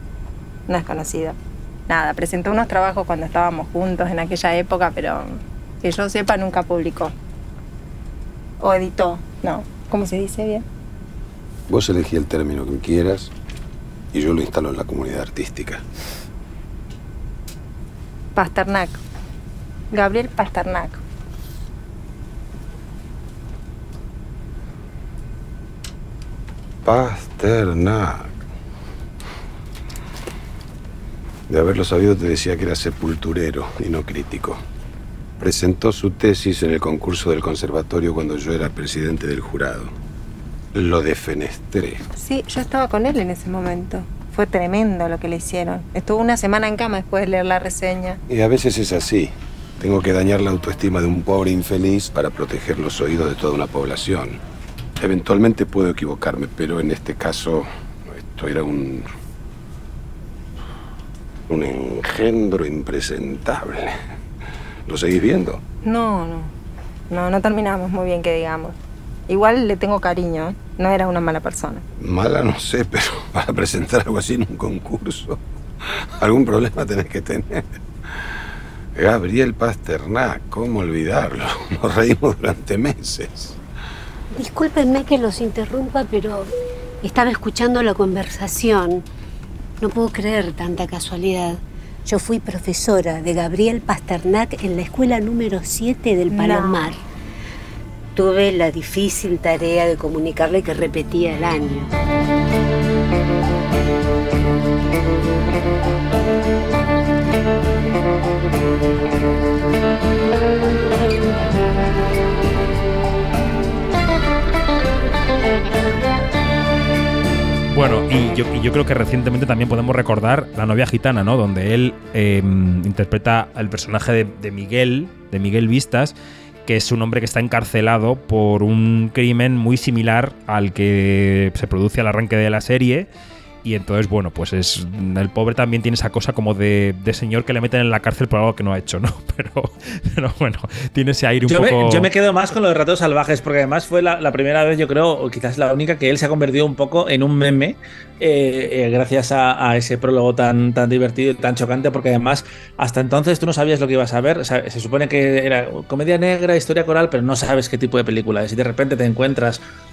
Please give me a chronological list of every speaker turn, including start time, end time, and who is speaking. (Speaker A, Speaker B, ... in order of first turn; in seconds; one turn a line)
Speaker A: 0.7-1.4
Speaker A: 1.9-7.1
Speaker A: 8.6-10.6
Speaker B: 11.7-13.3
Speaker B: 14.1-15.8
Speaker A: 18.4-19.0
Speaker A: 19.9-21.0
Speaker B: 26.9-28.3
Speaker B: 31.5-34.6
Speaker B: 35.4-39.9
Speaker B: 40.7-42.0
Speaker A: 42.1-48.2
Speaker B: 48.3-54.4
Speaker B: 55.0-59.1
Speaker B: 61.5-63.9
Speaker B: 64.9-65.6
Speaker A: 65.8-66.5
Speaker A: 67.1-68.8
Speaker A: 69.3-71.8
Speaker B: 72.0-75.4
Speaker B: 76.2-77.6
Speaker B: 79.0-83.6
Speaker C: 84.3-86.5
Speaker C: 87.0-89.0
Speaker C: 89.8-97.0
Speaker A: 96.3-96.9
Speaker C: 98.2-101.9
Speaker D: 117.7-133.1
Speaker D: 133.6-142.1
Speaker E: 141.5-159.6